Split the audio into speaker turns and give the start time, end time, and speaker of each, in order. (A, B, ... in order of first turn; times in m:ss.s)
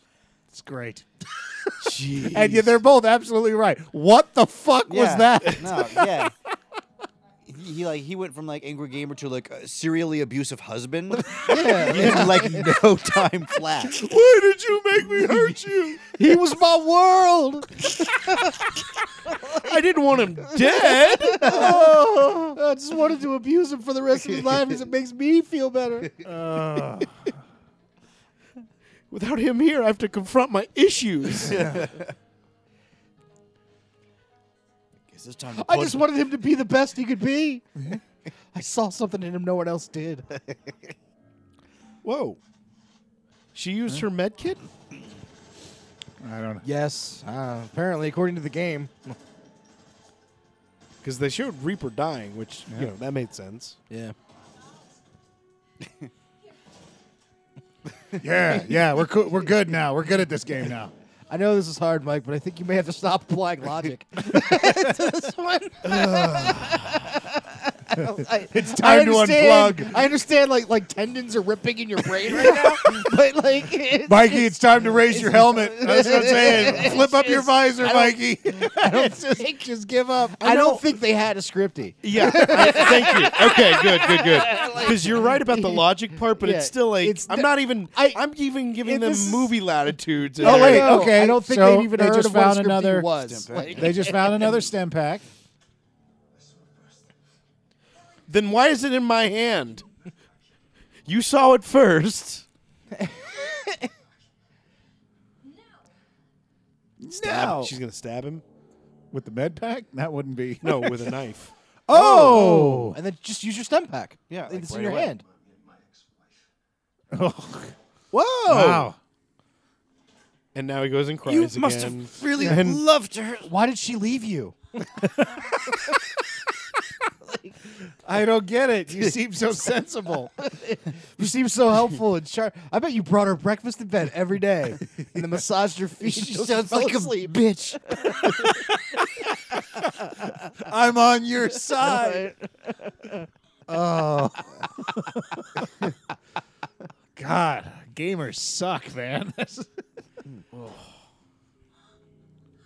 0:00.5-0:01.1 A
0:01.8-0:02.8 B
0:02.3-0:06.3 A
0:04.9-0:06.3 C
0:07.4-0:14.0 C
0:11.3-0:12.8 D
0:11.7-0:12.5 B
0:13.9-0:16.4 B
0:15.6-0:16.0 A
0:16.2-0:18.6 D
0:19.3-0:19.6 D
0:19.5-0:21.6 B
0:20.6-0:26.2 D
0:21.4-0:21.9 C
0:21.4-0:22.6 A
0:24.2-0:24.6 C
0:26.2-0:27.2 A
0:29.1-0:31.7 B
0:31.4-0:32.1 C
0:31.5-0:31.9 A
0:35.1-0:36.1 C
0:35.5-0:37.7 D
0:37.8-0:38.0 A
0:38.5-0:40.4 D
0:42.0-0:42.4 B
0:43.6-0:44.6 B
0:46.2-0:46.6 A
0:46.6-0:49.2 D
0:51.0-0:53.8 B
0:53.9-0:54.2 D
0:58.2-1:00.9 A
1:01.3-1:19.6 D
1:05.8-1:07.0 B
1:08.5-1:09.9 A
1:14.1-1:20.4 A
1:20.4-1:28.2 D
1:20.4-1:20.9 B
1:22.0-1:31.1 B
1:28.8-1:29.6 D
1:30.4-1:34.6 D
1:30.4-1:33.1 A
1:33.2-1:34.3 C
1:33.7-1:35.2 A
1:38.3-1:39.8 B
1:41.1-1:42.4 B
1:42.9-1:43.9 D
1:47.0-1:47.8 A
1:47.1-1:48.4 B
1:49.1-1:51.0 A
1:50.6-1:51.5 B
1:51.9-1:53.0 A
1:51.9-1:55.2 D
1:54.3-1:55.2 C
1:57.1-1:57.7 A
1:58.1-1:58.9 B
1:58.5-1:59.0 A
2:00.5-2:02.8 B
2:01.2-2:03.5 C
2:03.4-2:04.6 D
2:07.3-2:07.5 D
2:08.0-2:10.3 A
2:10.4-2:17.3 D
2:16.0-2:18.3 C
2:20.6-2:22.3 A
2:21.8-2:22.4 D
2:23.7-2:25.4 A
2:27.2-2:29.7 A